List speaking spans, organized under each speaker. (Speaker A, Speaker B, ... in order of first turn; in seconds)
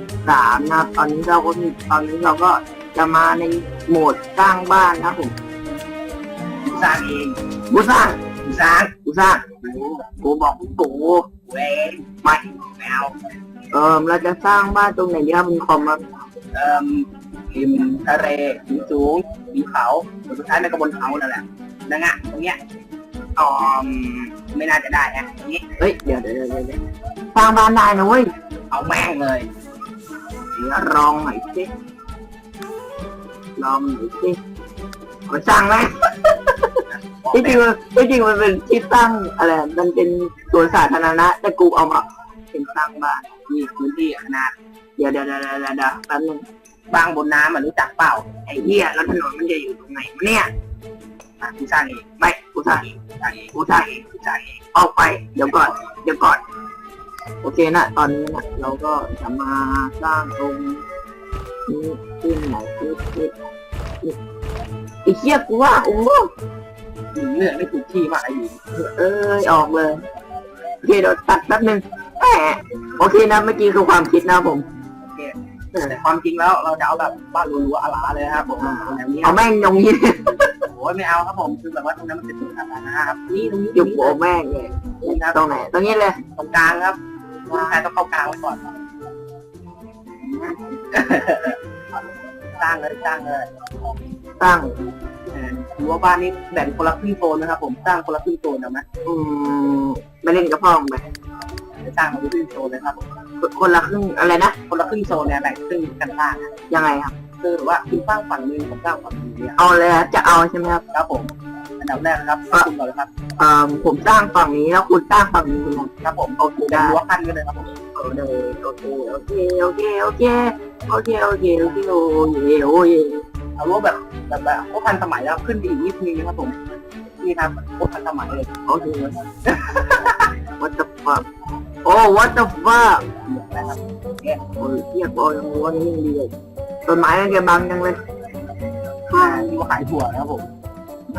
Speaker A: 0.2-5.4, 7.7-8.2, 9.1-11.3, 13.7-16.1, 25.8-26.8, 27.3-28.3, 30.5-31.7, 33.6-34.4, 35.3-36.8, 37.3-43.3, 45.0-46.5, 48.5-50.5, 52.2-52.9, 53.5-54.1, 54.7-56.4, 57.4-60.8, 61.7-63.3, 65.0-66.3, 68.8-70.0, 70.8-74.7, 78.6-80.6, 83.7-86.2, 94.4-94.8, 99.0-101.1, 103.4-104.6, 106.7-107.1, 109.6-110.8, 113.4-117.0, 117.9-123.2, 128.7-129.2, 130.6-131.2, 131.8-133.1, 134.6-136.3, 136.9-138.0, 139.1-139.5
Speaker B: 6.6-7.4, 8.4-8.9, 11.5-13.1, 16.5-22.6, 23.5-25.6, 28.7-29.5, 36.9-37.6, 43.5-44.5, 46.9-48.3, 51.4-52.2, 52.7-54.7, 67.1-68.6, 75.1-79.4, 80.7-84.2, 85.0-85.5, 86.3-88.7, 90.3-91.6, 92.6-93.5, 95.3-98.8, 101.8-103.1, 104.7-106.5, 107.4-109.6, 110.9-113.1, 116.0-117.7, 123.6-126.6, 127.2-128.5, 129.4-130.3, 133.2-134.4, 139.1-140.5